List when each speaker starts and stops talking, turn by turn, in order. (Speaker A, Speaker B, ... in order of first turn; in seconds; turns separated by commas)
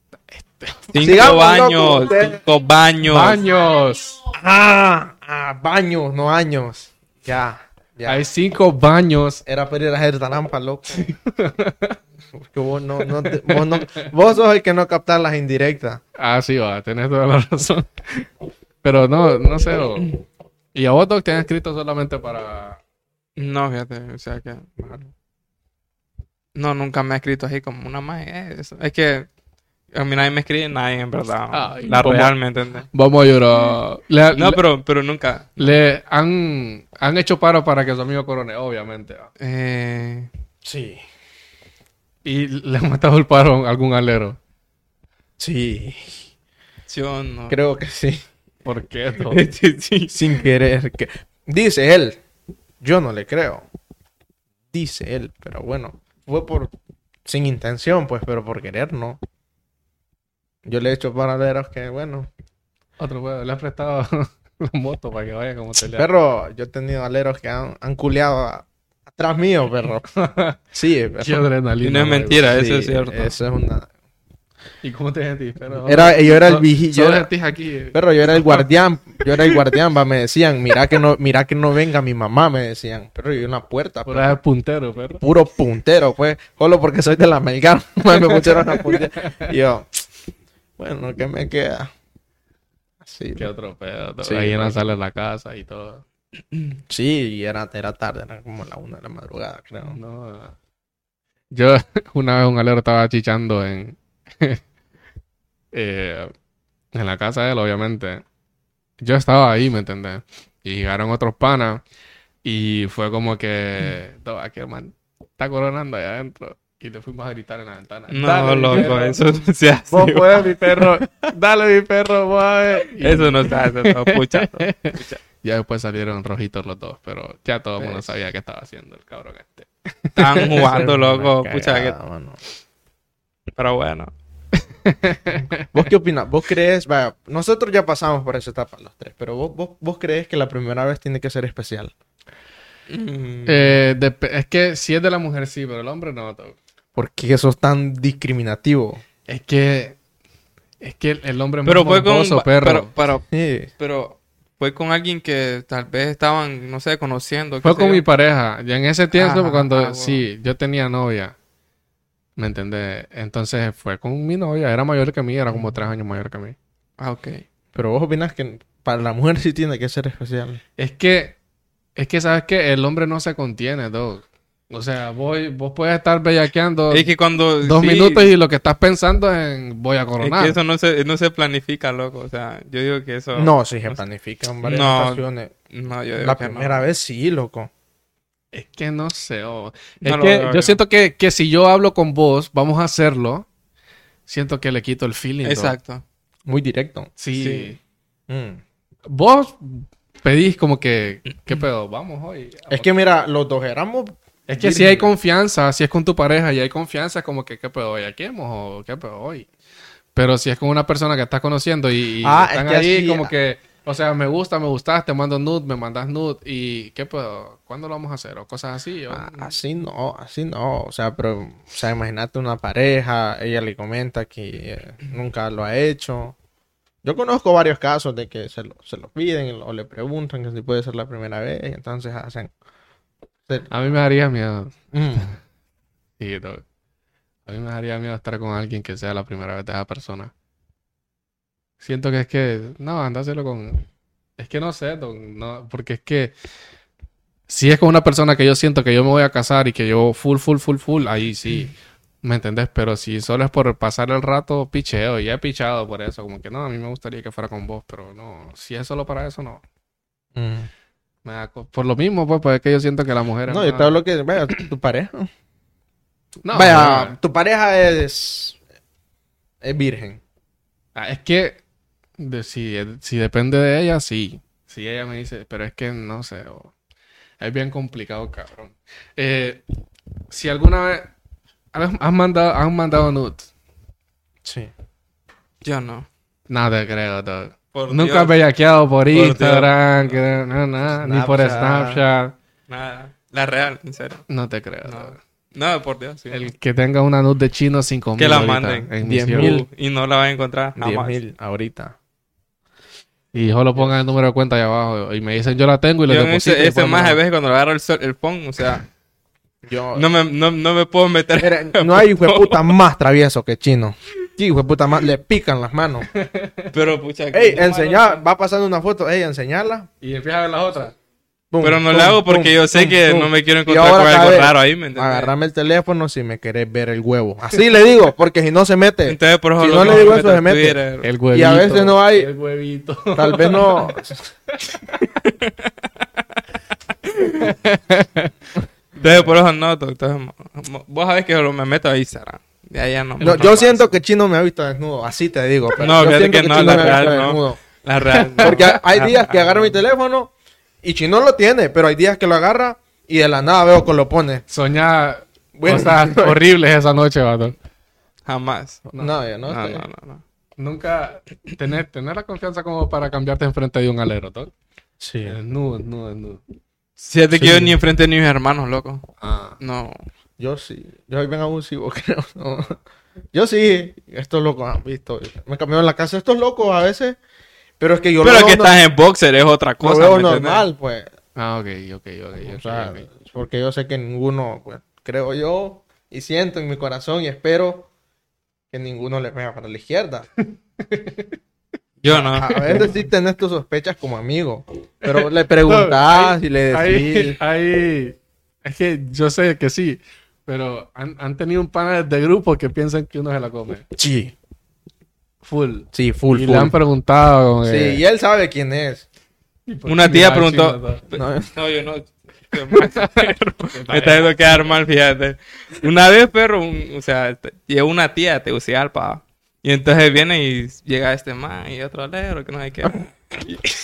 Speaker A: 0.3-1.1, Speaker B: 0.9-3.4, Speaker C: 1.0-2.4, Speaker A: 3.0-4.2, Speaker C: 4.3-8.2, Speaker A: 8.1-9.4, Speaker C: 9.5-11.1, Speaker A: 11.0-12.0, Speaker C: 12.3-16.0, Speaker A: 13.1-14.1, Speaker A: 16.2-18.3, Speaker A: 18.8-20.2, Speaker A: 20.8-22.8, Speaker B: 23.4-24.7, Speaker C: 24.8-25.1, Speaker B: 26.6-29.3, Speaker B: 29.9-32.9, Speaker A: 31.5-32.4, Speaker A: 32.9-34.6, Speaker B: 34.3-35.6, Speaker A: 35.6-39.3, Speaker B: 39.4-40.3, Speaker C: 40.6-41.0, Speaker A: 42.2-44.4, Speaker C: 45.4-46.3, Speaker B: 46.9-47.6, Speaker C: 47.5-48.3, Speaker A: 48.6-49.5, Speaker B: 49.3-50.4, Speaker C: 50.1-52.2, Speaker C: 52.8-53.7, Speaker C: 54.7-56.7, Speaker C: 57.3-59.2, Speaker C: 60.6-62.3, Speaker A: 63.0-66.1, Speaker C: 65.9-70.1, Speaker A: 70.1-70.6, Speaker C: 70.7-71.5, Speaker A: 71.2-72.6, Speaker B: 71.8-73.4, Speaker C: 72.5-73.9, Speaker A: 74.8-78.7, Speaker C: 75.8-77.3, Speaker C: 77.9-84.4, Speaker A: 84.1-85.2, Speaker C: 85.2-90.1, Speaker C: 90.8-91.9, Speaker C: 93.0-93.5, Speaker A: 93.4-96.0, Speaker C: 94.2-94.8, Speaker C: 96.9-100.0, Speaker A: 99.9-100.5, Speaker A: 101.5-104.6, Speaker A: 105.7-106.3, Speaker A: 106.9-108.2, Speaker A: 109.0-111.8, Speaker A: 112.5-119.2, Speaker B: 118.1-120.5, Speaker A: 119.9-130.9, Speaker C: 120.0-121.1, Speaker B: 123.0-125.2, Speaker C: 127.8-128.1, Speaker B: 130.2-132.0, Speaker C: 130.5-132.4, Speaker B: 133.6-134.1, Speaker A: 134.8-135.8, Speaker C: 135.7-141.9, Speaker B: 142.9-143.7, Speaker A: 143.5-146.6, Speaker C: 147.0-149.0, Speaker A: 149.3-150.0, Speaker A: 150.8-152.9, Speaker B: 151.7-153.2, Speaker C: 153.3-153.7, Speaker B: 153.8-158.0, Speaker A: 157.6-161.3, Speaker B: 159.1-160.2, Speaker A: 162.4-166.6, Speaker B: 167.0-167.4, Speaker C: 167.7-170.6, Speaker A: 170.8-171.4, Speaker A: 172.0-177.1, Speaker B: 176.9-178.3, Speaker A: 177.6-180.6, Speaker B: 180.2-184.0, Speaker C: 183.4-185.5, Speaker B: 184.6-186.8, Speaker C: 186.2-187.7, Speaker A: 188.5-193.5, Speaker B: 190.0-190.8, Speaker A: 194.3-195.8, Speaker B: 195.4-196.0, Speaker C: 196.5-197.1, Speaker A: 197.2-197.8, Speaker B: 197.3-197.8, Speaker C: 198.3-198.6, Speaker A: 199.1-202.9, Speaker C: 202.7-205.1, Speaker A: 204.5-209.5, Speaker A: 210.2-219.5, Speaker C: 212.2-213.3, Speaker C: 219.1-226.4, Speaker C: 227.0-232.5, Speaker A: 233.7-235.3, Speaker C: 234.9-235.3, Speaker A: 236.2-236.6, Speaker A: 237.5-240.3, Speaker A: 241.8-243.9, Speaker A: 244.4-246.3, Speaker A: 247.5-259.6, Speaker C: 260.4-260.7, Speaker A: 261.2-263.9, Speaker C: 263.5-265.3, Speaker A: 266.4-267.2, Speaker C: 266.5-268.6, Speaker C: 269.6-270.2, Speaker A: 270.9-271.6, Speaker A: 272.2-276.7, Speaker A: 277.4-279.6, Speaker A: 280.3-281.1, Speaker A: 281.7-283.5, Speaker C: 284.4-284.7, Speaker B: 285.6-286.1, Speaker A: 286.5-292.3, Speaker B: 287.7-288.4, Speaker B: 289.1-289.8, Speaker C: 290.9-292.0, Speaker B: 292.7-294.2, Speaker A: 294.3-295.2, Speaker B: 294.9-296.4, Speaker A: 296.3-299.6, Speaker B: 298.2-301.2, Speaker C: 299.0-299.7, Speaker C: 300.8-302.0, Speaker A: 303.3-307.2, Speaker B: 306.1-308.9, Speaker C: 309.6-310.1, Speaker B: 309.9-312.7, Speaker C: 311.4-316.1, Speaker A: 316.1-316.7, Speaker B: 316.7-318.2, Speaker C: 317.3-319.9, Speaker A: 320.0-320.9, Speaker C: 321.5-330.8, Speaker B: 321.6-325.3, Speaker B: 329.1-331.1, Speaker A: 331.0-334.0, Speaker C: 331.3-332.3, Speaker C: 333.1-334.3, Speaker A: 334.5-335.0, Speaker B: 335.2-336.1, Speaker B: 337.0-337.5, Speaker A: 337.4-338.3, Speaker B: 339.0-343.8, Speaker A: 343.2-343.7, Speaker C: 343.2-347.6, Speaker B: 345.8-349.8, Speaker C: 348.4-350.3, Speaker C: 350.8-354.4, Speaker A: 354.5-357.6, Speaker C: 355.6-356.4, Speaker B: 358.3-358.9, Speaker C: 359.0-359.9, Speaker B: 359.5-360.2, Speaker A: 360.6-364.5, Speaker C: 365.0-365.4, Speaker A: 365.2-366.4, Speaker B: 367.0-369.1, Speaker C: 367.3-367.8, Speaker A: 369.2-369.6, Speaker B: 369.6-370.1, Speaker C: 370.4-372.8, Speaker C: 373.3-377.2, Speaker C: 377.8-378.8, Speaker B: 378.2-380.6, Speaker C: 379.8-381.1, Speaker A: 381.4-383.1, Speaker C: 382.4-387.9, Speaker C: 388.7-390.3, Speaker A: 390.8-391.4, Speaker B: 392.0-392.8, Speaker C: 392.1-397.4, Speaker A: 392.4-393.0, Speaker A: 395.0-403.9, Speaker C: 404.0-404.4, Speaker A: 405.4-408.0, Speaker C: 405.9-406.8, Speaker C: 407.6-409.1, Speaker A: 409.7-411.0, Speaker B: 409.9-423.7, Speaker C: 411.1-411.5, Speaker A: 412.8-414.5